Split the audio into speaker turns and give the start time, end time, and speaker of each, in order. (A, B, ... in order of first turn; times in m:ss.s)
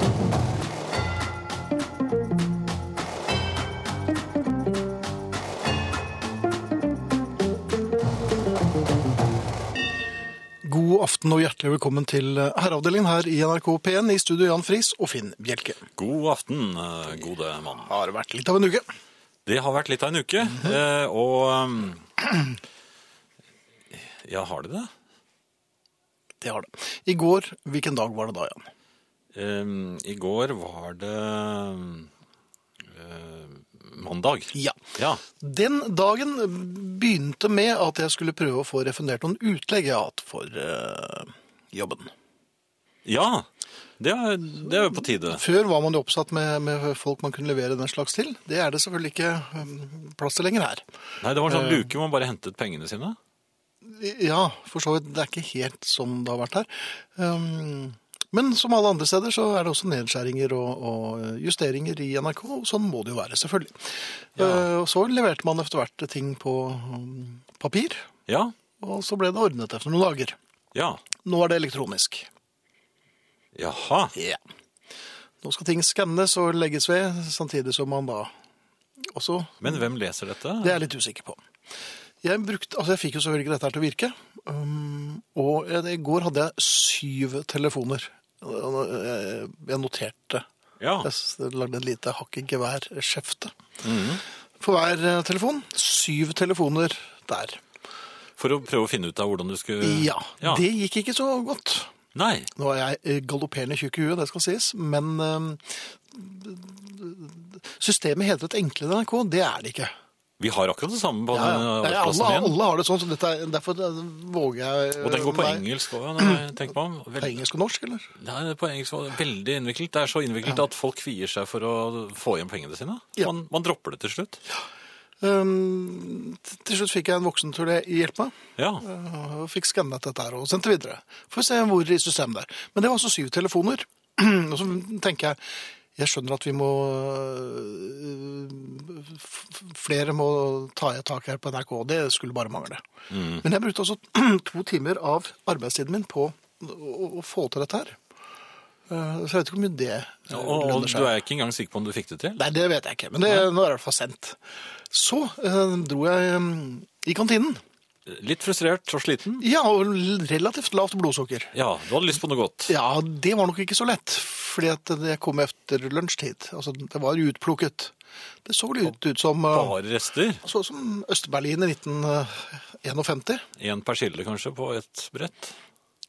0:10.6-0:15.8 A
0:16.0-0:17.9 B
0:17.8-0:18.9 A
0:19.4-0:22.1 B
0:23.9-0:24.9 B
0:26.4-0:28.7 A
0:29.3-0:32.1 B
0:32.9-0:35.2 B
0:35.4-0:42.1 A
0:43.0-0:43.5 B
0:44.0-0:45.4 B
0:44.7-0:50.8 A
0:51.2-0:53.2 B
0:51.5-0:51.9 A
0:53.8-1:08.1 A
1:04.4-1:04.7 B
1:08.3-1:08.5 B
1:08.8-1:10.4 A
1:10.7-1:11.0 B
1:11.2-1:12.3 A
1:13.5-1:14.1 B
1:14.1-1:14.4 A
1:15.4-1:18.3 A
1:19.1-1:19.8 A
1:19.6-1:20.8 B
1:20.6-1:21.4 A
1:22.2-1:30.4 A
1:30.8-1:31.1 B
1:31.0-1:33.5 A
1:33.8-1:34.2 B
1:34.6-1:37.6 A
1:38.4-1:40.6 B
1:39.8-1:41.9 A
1:42.1-1:42.5 B
1:42.6-1:49.9 A
1:50.4-1:52.6 B
1:51.3-1:55.7 A
1:55.0-1:57.4 B
1:56.2-1:56.4 A
1:57.2-1:58.1 A
1:58.2-2:04.4 B
2:05.2-2:15.4 A
2:08.6-2:08.8 B
2:15.9-2:22.8 A
2:23.1-2:23.4 B
2:23.4-2:28.0 A
2:28.9-2:31.1 A
2:30.3-2:32.4 B
2:32.4-2:37.6 A
2:38.1-2:39.4 B
2:39.4-2:41.5 A
2:41.5-2:42.7 B
2:42.7-2:47.9 A
2:48.4-2:49.8 A
2:49.5-2:50.4 B
2:50.4-2:53.4 A
2:53.6-2:55.5 B